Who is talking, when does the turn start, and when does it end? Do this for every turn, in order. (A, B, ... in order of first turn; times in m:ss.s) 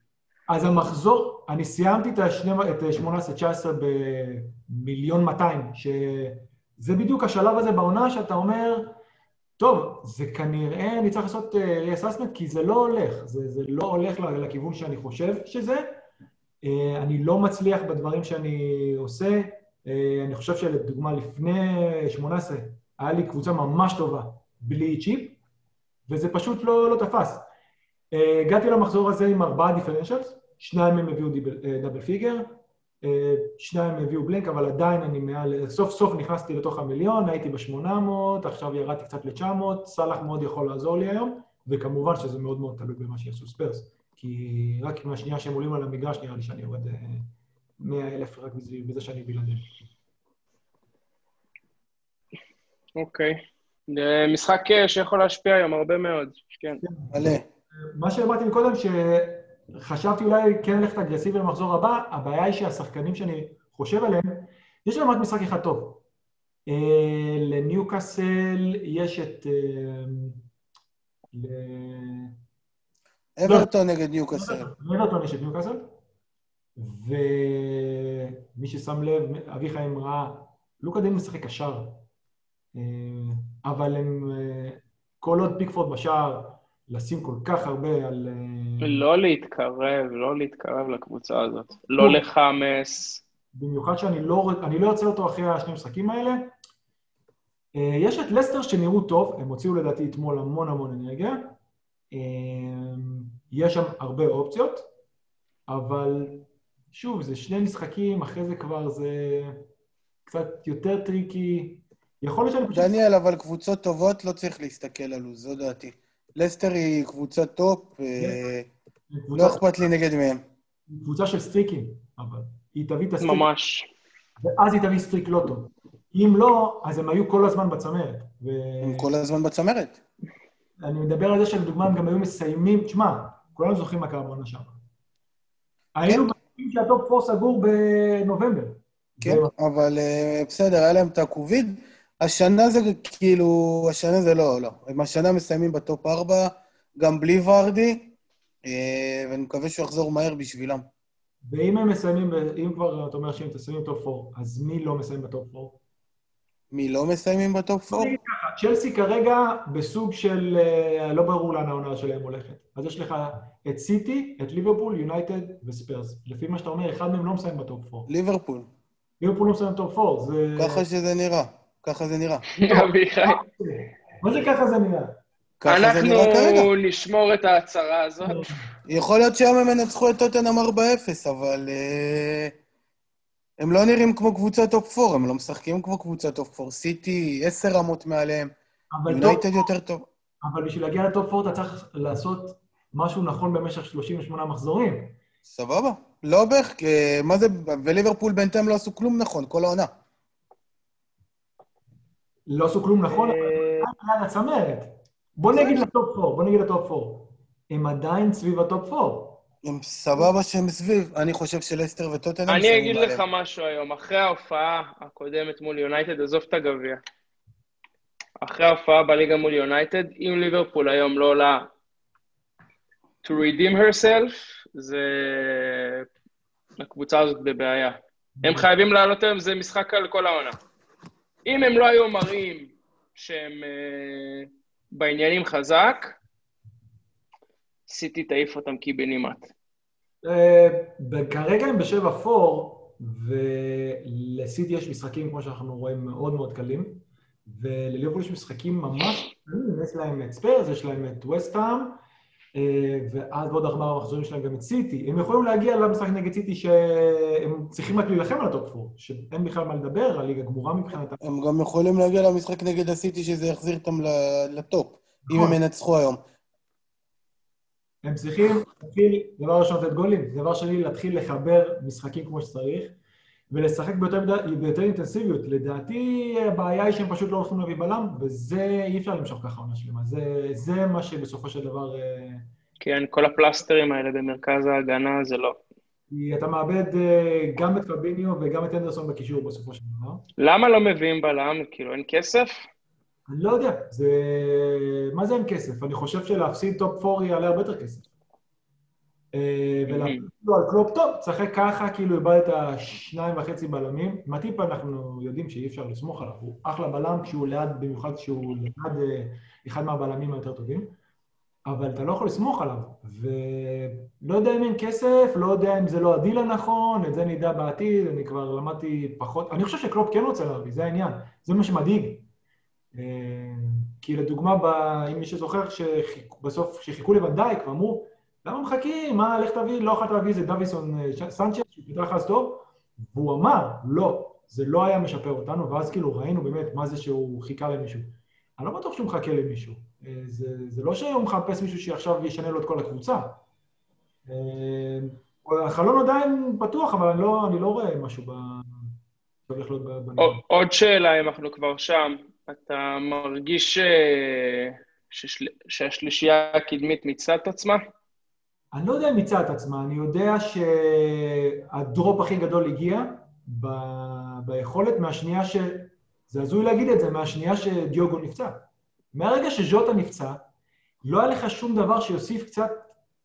0:00.5-0:09.0 A
0:09.6-0:15.9 A
0:16.6-0:25.4 A
0:26.1-0:27.4 A
0:28.1-0:49.8 A
0:53.0-0:56.8 B
0:56.8-1:06.0 A
0:57.1-0:57.4 C
1:06.7-1:10.4 A
1:11.3-1:12.4 A
1:13.4-1:14.7 C
1:14.3-1:15.9 A
1:16.8-1:22.0 A
1:22.8-1:29.0 A
1:28.8-1:33.2 B
1:33.5-1:36.5 A
1:37.8-1:41.6 A
1:42.1-1:44.9 A
1:45.7-1:49.6 A
1:50.3-1:52.9 A
1:52.7-1:58.7 C
1:59.1-1:59.6 A
1:59.4-2:00.4 C
2:00.9-2:03.5 A
2:03.2-2:03.9 B
2:04.4-2:09.1 A
2:08.8-2:10.0 C
2:10.8-2:14.8 A
2:16.0-2:19.5 A
2:19.2-2:28.1 C
2:28.6-2:30.9 C
2:31.4-2:35.8 A
2:36.7-2:38.2 C
2:37.9-2:48.1 A
2:48.1-2:48.7 C
2:49.2-2:50.8 A
2:50.6-2:52.5 C
2:52.6-2:53.4 B
2:52.7-2:55.2 A
2:55.6-2:56.7 C
2:55.7-2:58.5 B
2:58.2-2:58.7 A
2:58.9-3:02.6 C
3:03.6-3:08.5 C
3:08.9-3:09.5 A
3:09.1-3:10.1 C
3:10.4-3:15.2 A
3:15.5-3:19.9 C
3:22.4-3:29.4 A
3:23.1-3:23.9 B
3:29.6-3:33.2 C
3:32.5-3:37.0 B
3:38.4-3:41.7 B
3:43.2-3:46.0 B
3:46.8-3:50.6 B
3:48.4-3:48.7 A
3:51.4-3:56.2 B
3:57.9-3:59.5 B
4:00.2-4:12.0 A
4:12.6-4:21.2 A
4:21.2-4:26.2 C
4:25.3-4:25.6 A
4:28.0-4:33.0 A
4:33.5-4:42.5 A
4:42.8-4:45.6 B
4:46.1-4:50.2 A
4:50.4-4:52.7 B
4:53.3-4:58.1 A
4:59.3-5:10.9 A
4:59.9-5:00.2 B
5:11.7-5:22.3 A
5:22.9-5:43.4 A
5:44.3-5:50.4 A
5:50.2-5:57.8 B
5:58.7-6:08.6 A
6:09.1-6:10.4 A
6:11.0-6:12.9 A